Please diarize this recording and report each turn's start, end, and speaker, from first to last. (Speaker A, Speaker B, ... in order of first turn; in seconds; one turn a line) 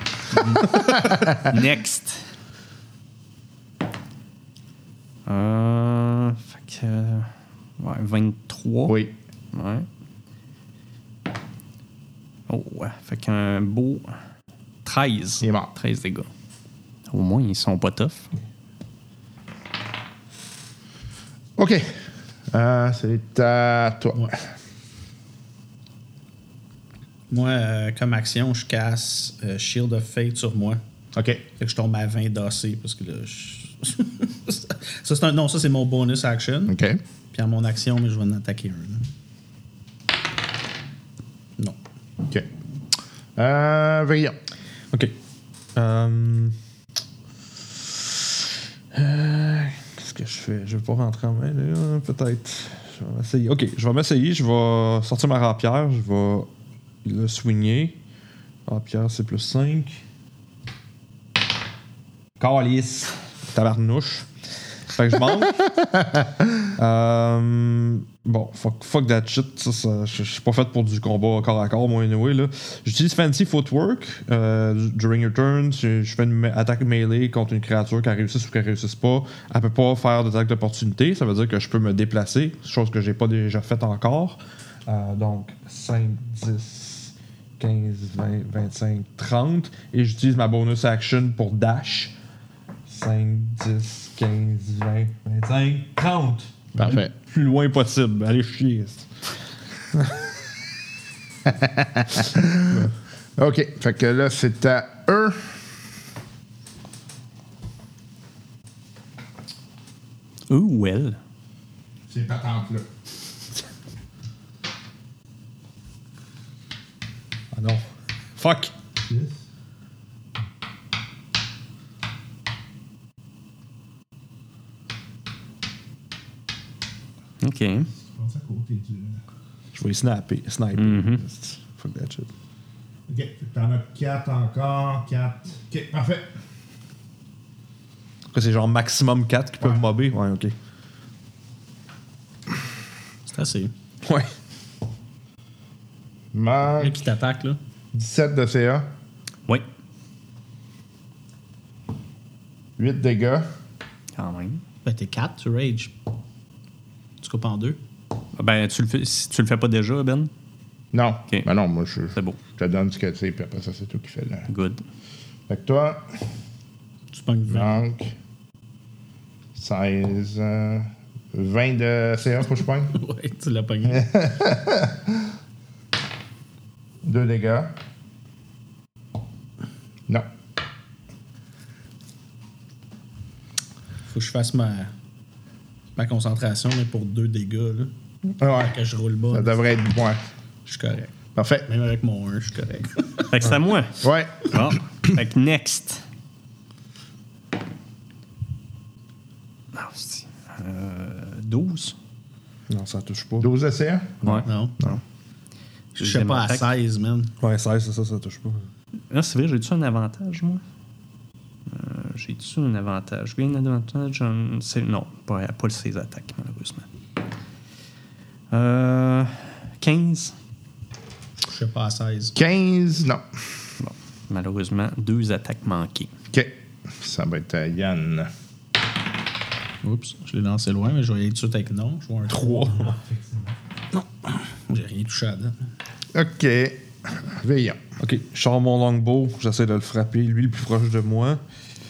Speaker A: 0.4-1.4
Speaker B: 0.7-1.5
Speaker C: 1.4-2.2
Speaker C: 5.3-9.0
Speaker B: 8.9-9.1
Speaker C: 9.5-9.9
Speaker C: 12.5-14.2
Speaker C: 14.8-16.3
Speaker B: 15.4-15.7
Speaker C: 17.1-18.3
Speaker B: 21.6-21.9
Speaker B: 22.5-24.4
Speaker D: 27.3-30.8
Speaker B: 31.1-31.4
Speaker D: 31.6-36.8
Speaker B: 36.7-37.0
Speaker D: 37.3-39.1
Speaker B: 43.4-44.4
Speaker A: 45.8-46.5
Speaker A: 48.9-56.5
Speaker A: 57.0-58.0
Speaker A: 58.7-60.0
Speaker A: 62.4-64.3
Speaker A: 64.9-66.0
Speaker A: 66.8-92.1
Speaker A: 92.9-99.1
Speaker B: 96.8-97.1
Speaker A: 99.9-100.3
Speaker B: 101.5-105.6
Speaker C: 110.5-111.2
Speaker B: 112.1-112.9
Speaker A: 117.5-117.8
Speaker A: 118.4-118.7
Speaker B: 119.1-119.4
Speaker C: 127.4-127.9
Speaker B: 128.0-129.2
Speaker A: 129.7-132.3
Speaker C: 130.8-131.2
Speaker B: 133.1-136.3
Speaker A: 138.3-140.6
Speaker D: 143.3-143.7
Speaker A: 144.1-144.3
Speaker B: 146.3-147.0
Speaker D: 146.8-147.6
Speaker B: 147.9-148.9
Speaker B: 152.8-153.4
Speaker C: 154.2-154.6
Speaker D: 154.8-155.9
Speaker D: 157.2-157.8
Speaker C: 158.4-160.3
Speaker B: 160.9-164.5
Speaker C: 164.5-164.8
Speaker B: 165.5-166.1
Speaker D: 167.1-167.8
Speaker B: 167.5-168.1
Speaker B: 169.6-173.0
Speaker D: 172.9-174.1
Speaker B: 173.9-175.3
Speaker B: 177.0-177.7
Speaker D: 184.1-184.9
Speaker D: 185.9-187.9
Speaker B: 188.4-188.8
Speaker D: 188.5-189.6
Speaker B: 189.3-190.2
Speaker D: 190.7-191.1
Speaker B: 191.3-191.7
Speaker D: 191.7-193.3
Speaker C: 193.3-196.0
Speaker B: 194.0-194.7
Speaker C: 199.7-202.0
Speaker A: 202.7-203.5
Speaker B: 203.4-205.0
Speaker C: 204.2-205.0
Speaker D: 204.5-204.8
Speaker D: 205.9-207.3
Speaker C: 206.0-206.7
Speaker A: 207.4-208.7
Speaker C: 209.1-210.6
Speaker C: 211.7-216.9
Speaker C: 218.5-220.3
Speaker D: 221.5-222.4
Speaker B: 222.3-223.2
Speaker C: 223.8-226.1
Speaker B: 226.3-228.3
Speaker D: 229.8-232.9
Speaker A: 232.3-233.0
Speaker D: 233.9-235.6
Speaker B: 236.1-237.8
Speaker A: 238.0-241.4